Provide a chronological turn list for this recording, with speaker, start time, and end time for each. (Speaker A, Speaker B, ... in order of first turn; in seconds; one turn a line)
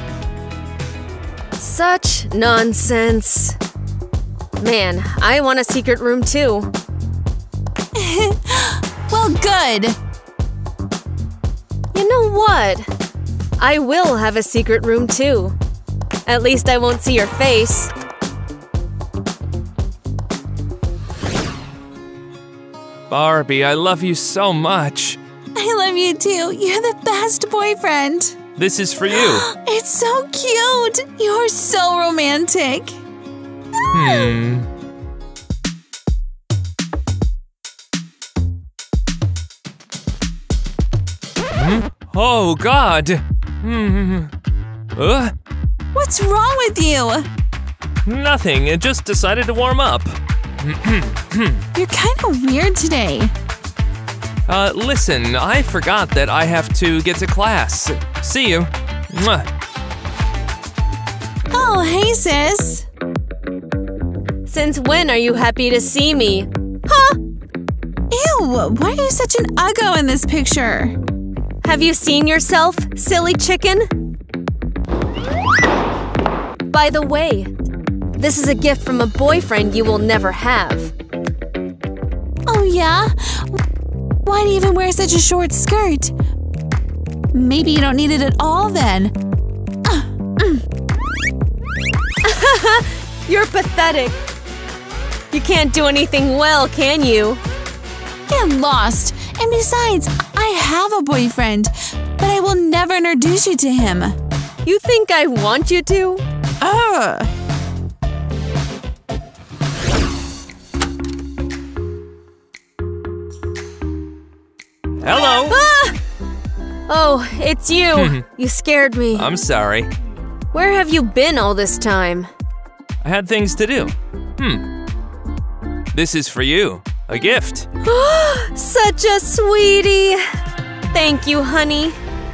Speaker A: 1.6-3.6
Speaker A: 4.6-6.7
Speaker B: 7.9-10.0
Speaker A: 11.9-12.9
Speaker A: 13.6-15.6
Speaker A: 16.3-17.9
Speaker C: 23.1-25.2
Speaker B: 25.6-28.4
Speaker C: 28.6-29.5
Speaker B: 29.1-33.0
Speaker B: 33.8-34.3
Speaker C: 33.9-34.7
Speaker C: 41.5-44.3
Speaker C: 45.0-45.3
Speaker B: 46.0-47.3
Speaker C: 48.0-51.6
Speaker B: 51.7-53.3
Speaker C: 54.5-59.5
Speaker B: 61.5-62.9
Speaker A: 64.5-67.2
Speaker B: 68.1-71.0
Speaker A: 71.6-73.9
Speaker A: 76.7-77.5
Speaker A: 78.2-80.9
Speaker B: 82.5-83.6
Speaker B: 84.2-86.1
Speaker B: 87.3-89.2
Speaker B: 89.8-90.6
Speaker A: 92.2-94.2
Speaker A: 95.3-97.4
Speaker B: 98.3-104.2
Speaker A: 104.7-106.2
Speaker B: 106.6-107.3
Speaker C: 115.0-115.6
Speaker A: 115.5-116.0
Speaker A: 116.9-119.3
Speaker C: 118.0-118.2
Speaker C: 119.1-119.9
Speaker A: 120.5-122.3
Speaker C: 123.0-124.7
Speaker C: 125.9-127.7
Speaker A: 127.8-130.2
Speaker A: 130.9-132.0